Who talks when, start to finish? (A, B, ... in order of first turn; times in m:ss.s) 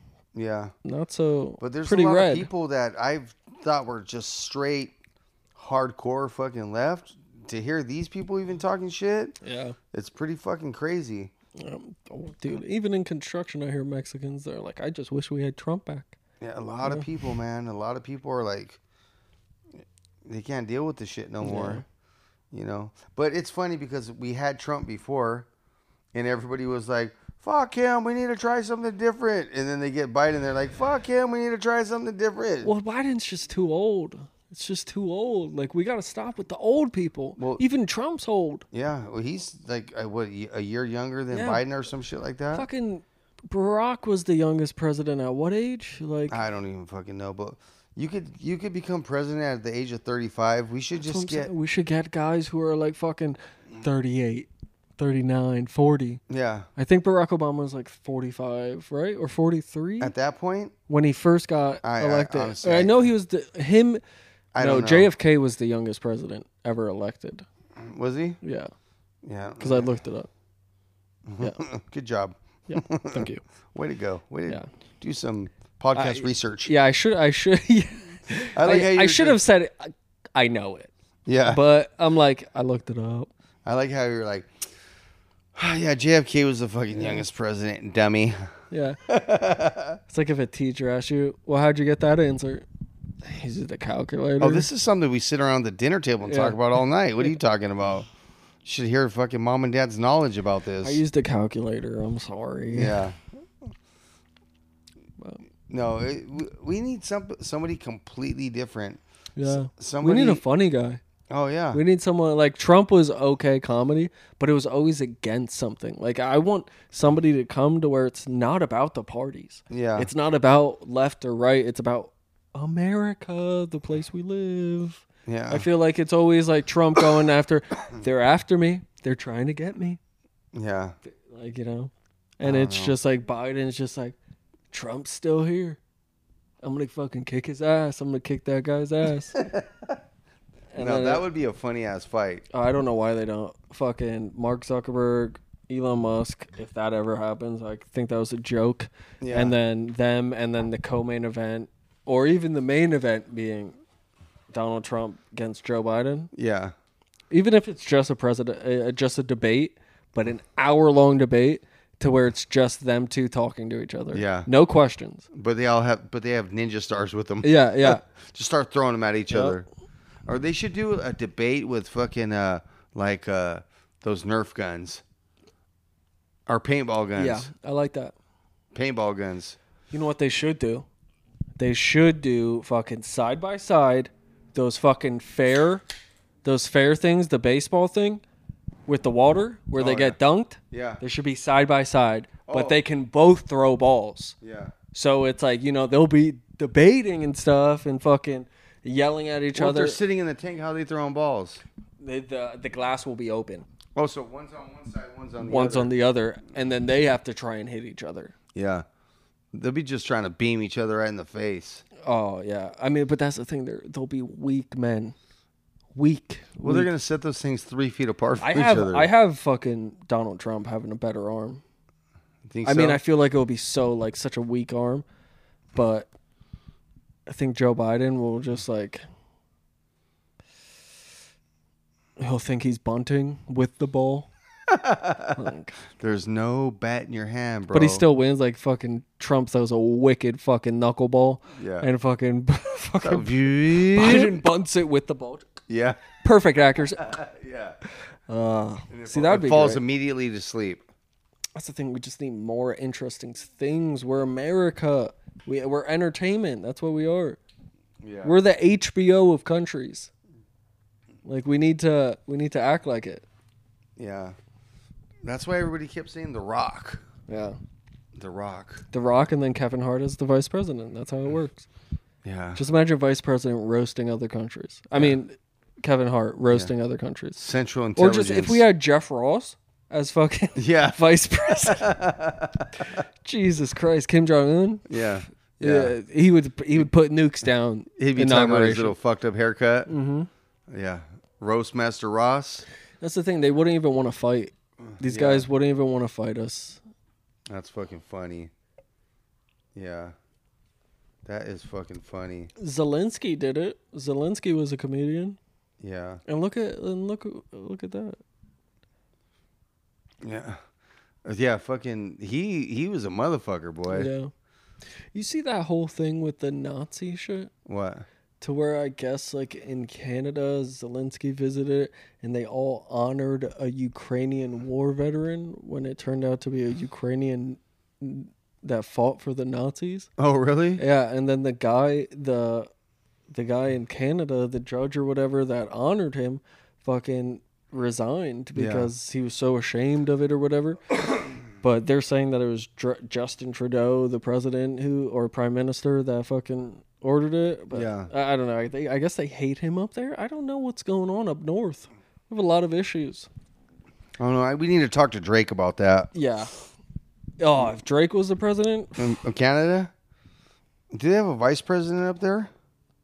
0:00.3-0:00.7 A
0:00.8-0:02.5 B
0:01.6-0:04.9 A
0:05.6-0:09.4 A
0:09.4-0:09.8 B
0:09.9-0:11.3 A
0:11.6-0:16.2 B
0:16.4-0:18.8 A
0:20.2-0:21.8 A
0:21.4-0:21.8 B
0:22.5-0:25.5 A
0:26.1-0:32.7 A
0:32.6-0:38.6 B
0:37.4-0:37.6 A
0:38.7-0:42.7 A
0:41.3-0:41.6 B
0:42.5-0:46.4 B
0:46.3-0:51.5 A
0:51.0-0:56.2 B
0:56.3-0:56.7 A
0:56.8-1:00.1 B
1:00.0-1:00.7 A
1:00.9-1:04.0 B
1:01.8-1:02.9 A
1:04.5-1:05.1 A
1:04.6-1:07.4 B
1:07.8-1:08.4 A
1:08.4-1:08.7 B
1:09.2-1:09.9 A
1:09.6-1:10.3 B
1:11.3-1:16.7 A
1:12.7-1:13.4 B
1:15.9-1:20.9 B
1:18.5-1:19.4 A
1:21.2-1:21.6 A
1:21.4-1:23.3 B
1:23.6-1:24.5 A
1:25.5-1:28.5 A
1:26.9-1:27.2 B
1:28.7-1:29.0 B
1:29.1-1:30.0 A
1:30.1-1:32.6 B
1:33.2-1:34.7 B
1:34.4-1:38.1 A
1:36.2-1:36.6 B
1:38.6-1:41.0 A
1:40.8-1:43.1 B
1:42.7-1:43.2 A
1:45.7-1:50.4 A
1:49.4-1:51.0 B
1:51.3-1:51.8 A
1:51.7-2:10.0 B
1:59.7-2:00.1 A
2:05.2-2:05.6 A
2:10.5-2:10.9 A
2:11.1-2:14.1 B
2:12.4-2:13.0 A
2:14.7-2:15.8 B
2:16.6-2:19.4 B
2:19.3-2:20.0 A
2:20.7-2:21.2 B
2:20.8-2:22.4 A
2:22.5-2:33.8 B
2:29.2-2:29.5 A
2:34.5-2:36.3 B
2:36.3-2:36.7 A
2:37.3-2:45.3 B
2:44.1-2:44.5 A
2:45.3-2:49.6 A
2:47.4-2:48.0 B
2:49.3-2:49.6 B
2:50.3-2:55.0 A
2:56.5-2:57.5 A
2:57.2-2:58.1 B
2:58.7-2:59.6 A
2:59.9-3:00.9 B
3:01.6-3:05.8 B
3:06.4-3:08.2 B
3:08.9-3:14.4 B
3:09.8-3:10.2 A
3:10.7-3:11.0 A
3:12.5-3:12.8 A
3:14.4-3:14.7 A
3:14.9-3:20.0 B
3:19.5-3:21.6 A
3:22.0-3:23.7 B
3:24.0-3:25.9 A
3:25.4-3:28.3 B
3:28.5-3:28.8 A
3:29.5-3:31.8 A
3:32.0-3:35.1 B
3:35.9-3:36.9 B
3:36.6-3:39.1 A
3:38.4-3:41.6 B
3:42.4-3:43.0 A
3:42.6-3:45.0 B
3:45.7-3:46.1 B
3:47.3-3:49.0 B
3:52.2-3:54.3 B
3:54.7-3:55.4 A
3:55.4-3:55.7 B
3:56.0-3:58.0 A
3:57.7-4:05.5 B
4:01.6-4:01.9 A
4:03.0-4:04.4 A
4:05.7-4:06.0 A
4:06.2-4:07.1 B
4:07.0-4:07.8 A
4:08.3-4:09.8 B
4:08.9-4:10.8 A
4:11.6-4:17.4 B
4:18.0-4:18.4 A
4:18.2-4:20.1 B
4:21.2-4:23.2 B
4:24.0-4:24.4 A
4:25.2-4:27.0 A
4:27.3-4:27.6 B
4:28.2-4:28.8 A
4:28.9-4:31.7 B
4:32.2-4:32.6 A
4:32.5-4:41.9 B
4:37.4-4:38.6 A
4:40.6-4:42.9 A
4:42.9-4:48.9 B
4:44.9-4:45.9 A
4:48.0-4:49.9 A
4:49.9-4:50.3 B
4:50.7-4:52.6 A
4:53.0-4:56.8 B
4:55.0-4:55.4 A
4:57.5-4:58.5 A
4:59.7-5:00.1 A
5:01.2-5:02.5 A
5:02.6-5:05.4 B
5:05.8-5:06.2 A
5:06.3-5:08.2 B
5:10.2-5:10.6 A
5:11.2-5:14.1 A
5:13.9-5:14.3 B
5:15.1-5:17.5 B
5:17.7-5:18.0 A
5:18.4-5:30.1 B
5:30.2-5:30.8 A
5:30.8-5:32.7 B
5:33.3-5:40.8 B
5:38.5-5:38.9 A
5:41.6-5:53.3 B
5:47.7-5:48.1 A
5:54.2-5:56.1 A
5:56.1-5:56.5 B
5:57.4-5:59.2 B
5:59.0-5:59.9 A
6:00.9-6:02.5 A